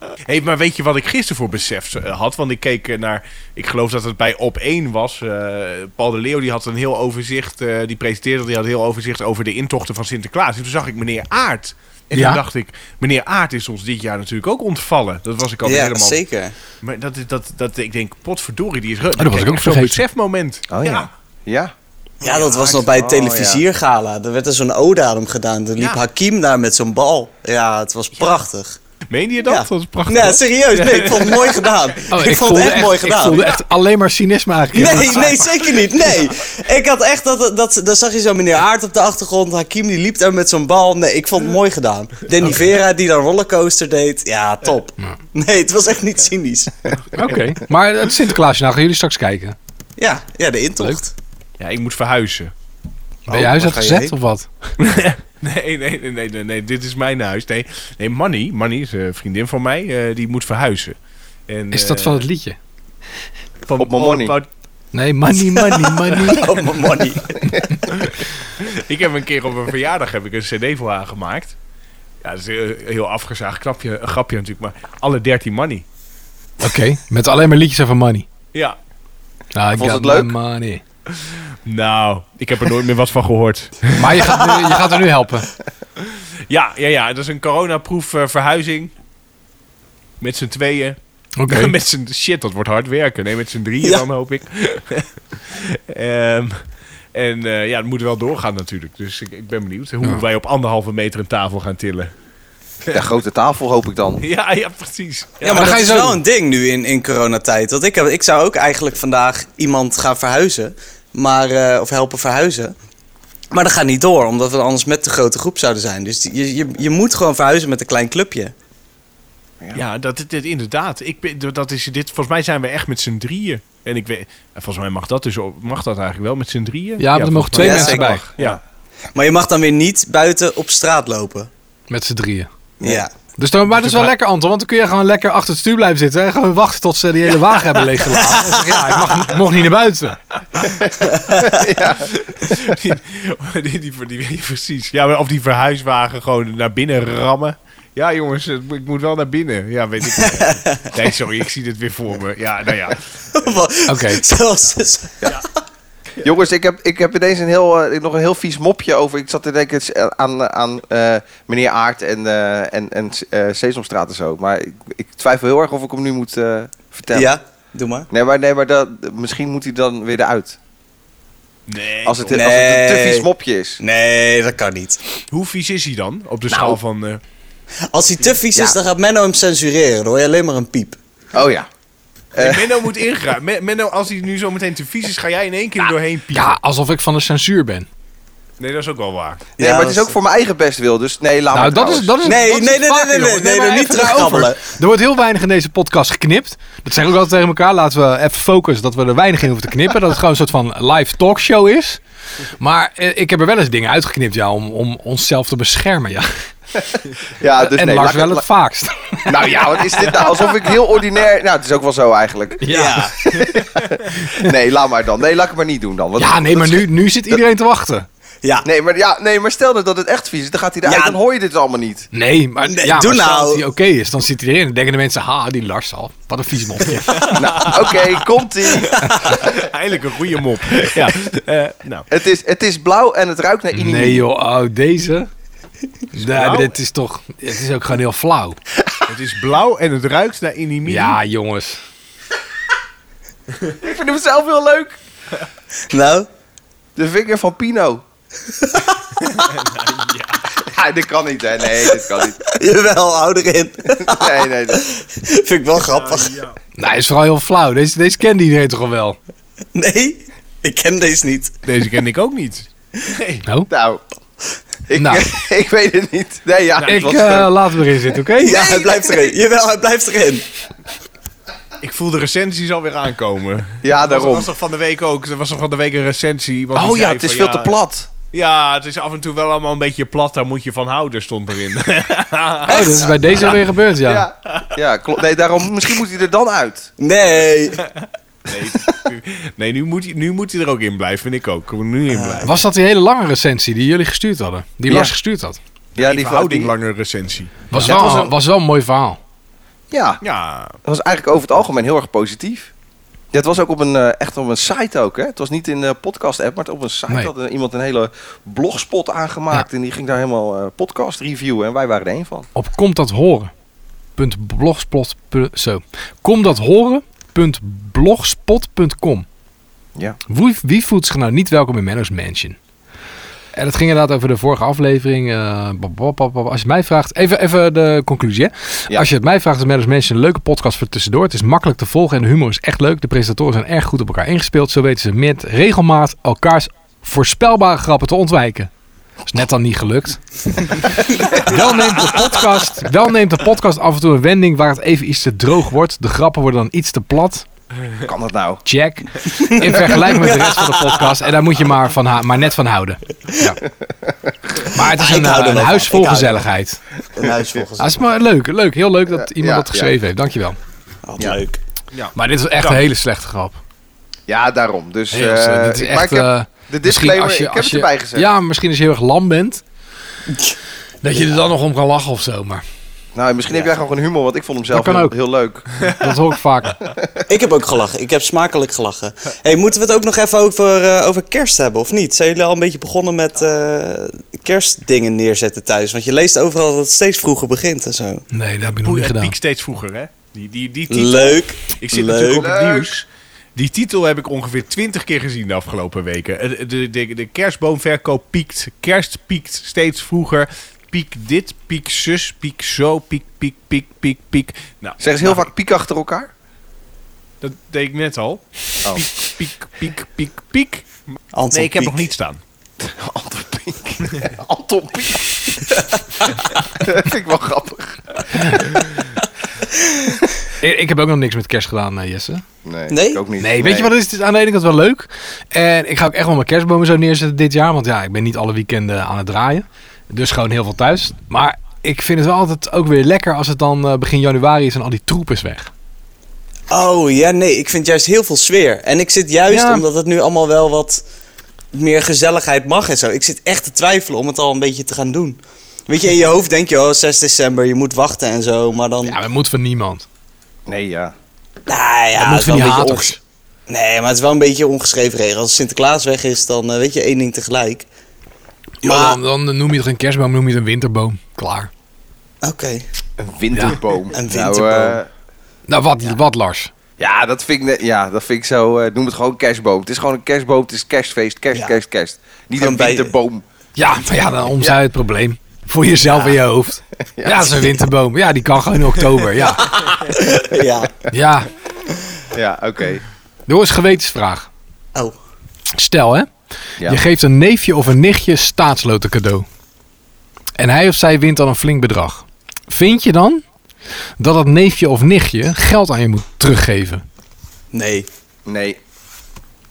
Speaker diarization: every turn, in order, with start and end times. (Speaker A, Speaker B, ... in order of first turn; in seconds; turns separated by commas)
Speaker A: 0.2-16.2, Speaker B: 12.1-12.4, Speaker C: 15.6-16.5, Speaker A: 16.8-21.1, Speaker B: 19.2-20.0, Speaker D: 20.7-21.7, Speaker C: 22.2-28.8, Speaker A: 22.2-22.9, Speaker D: 22.9-23.6, Speaker A: 29.1-33.6, Speaker C: 29.4-33.5, Speaker B: 32.1-35.4, Speaker C: 34.7-47.0, Speaker A: 35.0-35.9, Speaker B: 47.1-49.5, Speaker C: 50.0-51.1, Speaker A: 51.6-52.5, Speaker B: 53.3-54.5, Speaker D: 53.6-54.0, Speaker A: 54.8-60.9, Speaker A: 61.5-62.2, Speaker B: 61.7-62.6, Speaker A: 63.6-64.5, Speaker D: 63.8-64.3, Speaker B: 64.9-66.5, Speaker C: 65.6-67.5, Speaker A: 67.9-71.5, Speaker A: 72.2-75.8, Speaker B: 76.6-78.2, Speaker B: 79.5-80.8, Speaker D: 79.7-80.3, Speaker A: 81.3-84.3, Speaker B: 84.0-85.5, Speaker C: 84.2-84.9, Speaker A: 86.0-88.9, Speaker A: 90.2-96.6, Speaker B: 91.4-91.7, Speaker A: 97.1-102.1, Speaker D: 102.9-104.2, Speaker A: 104.2-105.8, Speaker C: 105.4-112.7, Speaker B: 105.5-106.2, Speaker C: 113.5-118.5, Speaker A: 119.7-128.6, Speaker B: 127.0-128.2, Speaker C: 127.5-128.3, Speaker C: 129.1-131.5, Speaker B: 131.9-132.5, Speaker D: 132.8-133.0, Speaker C: 132.8-133.1, Speaker B: 133.4-140.2, Speaker A: 133.7-134.1, Speaker C: 138.1-139.3, Speaker C: 141.0-141.5, Speaker D: 141.3-142.1, Speaker A: 142.1-153.6, Speaker C: 150.1-150.9, Speaker C: 153.4-155.4, Speaker B: 153.8-154.2, Speaker D: 156.2-167.3, Speaker C: 167.1-168.1, Speaker D: 168.1-170.6, Speaker A: 171.7-172.5, Speaker D: 172.0-173.8, Speaker C: 172.3-173.3, Speaker C: 173.8-175.0, Speaker A: 175.3-177.2, Speaker D: 176.5-176.8, Speaker C: 177.9-181.0, Speaker D: 181.3-181.7, Speaker D: 182.3-182.7, Speaker A: 182.3-186.6, Speaker B: 186.3-187.9, Speaker A: 188.6-189.4, Speaker C: 189.6-190.2, Speaker D: 189.6-192.3, Speaker B: 191.5-202.0, Speaker C: 192.2-194.6, Speaker B: 202.6-206.3, Speaker D: 207.4-208.5, Speaker B: 207.6-209.9, Speaker D: 209.3-212.8, Speaker B: 212.6-213.5, Speaker C: 212.7-213.1, Speaker D: 213.3-216.9, Speaker B: 216.2-218.1, Speaker D: 218.6-222.1, Speaker C: 220.9-221.2, Speaker B: 222.1-227.3, Speaker C: 222.6-223.6, Speaker A: 227.1-232.1, Speaker D: 227.3-229.5, Speaker D: 232.1-234.2, Speaker B: 233.7-235.3, Speaker B: 236.1-238.6, Speaker A: 236.2-236.7, Speaker A: 239.1-241.2, Speaker B: 240.8-241.8, Speaker D: 243.8-244.9, Speaker C: 245.9-246.3, Speaker D: 246.9-248.0, Speaker C: 248.6-249.0, Speaker A: 249.2-250.4, Speaker D: 250.6-252.4, Speaker C: 252.5-256.4, Speaker D: 254.0-254.8, Speaker A: 255.8-256.5, Speaker B: 256.8-259.2, Speaker C: 259.7-261.5, Speaker A: 261.6-263.4, Speaker D: 263.7-264.0, Speaker D: 264.9-267.5, Speaker B: 264.9-265.3, Speaker A: 266.8-267.1, Speaker B: 266.8-268.9, Speaker C: 268.4-270.4, Speaker A: 271.8-277.7, Speaker D: 273.8-274.5, Speaker D: 276.7-278.1, Speaker A: 278.3-283.5, Speaker B: 282.6-284.2, Speaker D: 284.0-286.9, Speaker C: 287.0-287.8, Speaker A: 287.8-292.5, Speaker C: 292.1-292.5, Speaker B: 292.4-295.6, Speaker A: 295.9-298.3, Speaker D: 296.0-296.7, Speaker B: 297.7-299.2, Speaker D: 297.8-298.3, Speaker D: 299.9-300.2, Speaker A: 300.2-300.8, Speaker D: 300.8-302.7, Speaker D: 303.3-312.5, Speaker B: 312.5-313.5, Speaker B: 314.2-319.2, Speaker B: 320.3-322.6, Speaker B: 323.5-338.7, Speaker B: 339.3-347.4, Speaker D: 348.0-348.6, Speaker B: 348.6-353.6, Speaker C: 349.3-351.1, Speaker B: 354.7-356.8, Speaker C: 354.8-356.4, Speaker C: 357.1-358.0, Speaker B: 357.8-360.6, Speaker D: 359.1-359.9, Speaker C: 361.1-361.6, Speaker A: 361.9-362.8, Speaker B: 362.1-363.6, Speaker D: 364.3-368.3, Speaker B: 365.1-369.6, Speaker B: 371.0-372.6, Speaker D: 373.1-375.7, Speaker B: 374.7-375.1, Speaker B: 375.8-376.8, Speaker D: 376.8-377.2, Speaker C: 377.3-388.2, Speaker B: 388.3-389.3, Speaker A: 388.6-405.5, Speaker C: 390.9-392.5, Speaker D: 392.4-392.9, Speaker D: 405.0-406.3, Speaker A: 407.4-412.4, Speaker C: 411.3-412.0, Speaker D: 412.8-418.8, Speaker B: 418.3-418.6, Speaker B: 420.6-422.4, Speaker D: 422.6-423.9, Speaker C: 422.9-423.2, Speaker B: 423.4-435.7, Speaker C: 436.7-441.0, Speaker B: 439.5-439.8, Speaker C: 441.7-449.2, Speaker B: 449.0-450.1, Speaker D: 450.7-451.1, Speaker C: 451.7-453.2, Speaker B: 452.2-453.2, Speaker C: 453.7-457.9, Speaker B: 458.8-461.7, Speaker C: 458.8-459.2, Speaker C: 462.4-462.9, Speaker D: 463.2-465.1, Speaker B: 463.5-463.8, Speaker C: 464.1-465.0, Speaker B: 465.7-466.7, Speaker D: 467.0-473.4, Speaker C: 472.6-473.1, Speaker B: 473.8-479.7, Speaker C: 476.0-476.4, Speaker D: 477.1-477.7, Speaker C: 479.4-481.0, Speaker B: 481.1-481.5, Speaker D: 482.3-483.0, Speaker B: 483.5-484.5, Speaker B: 485.8-486.3, Speaker B: 486.8-489.4, Speaker B: 490.6-493.4, Speaker B: 494.2-497.0, Speaker C: 497.7-498.1, Speaker D: 498.4-498.8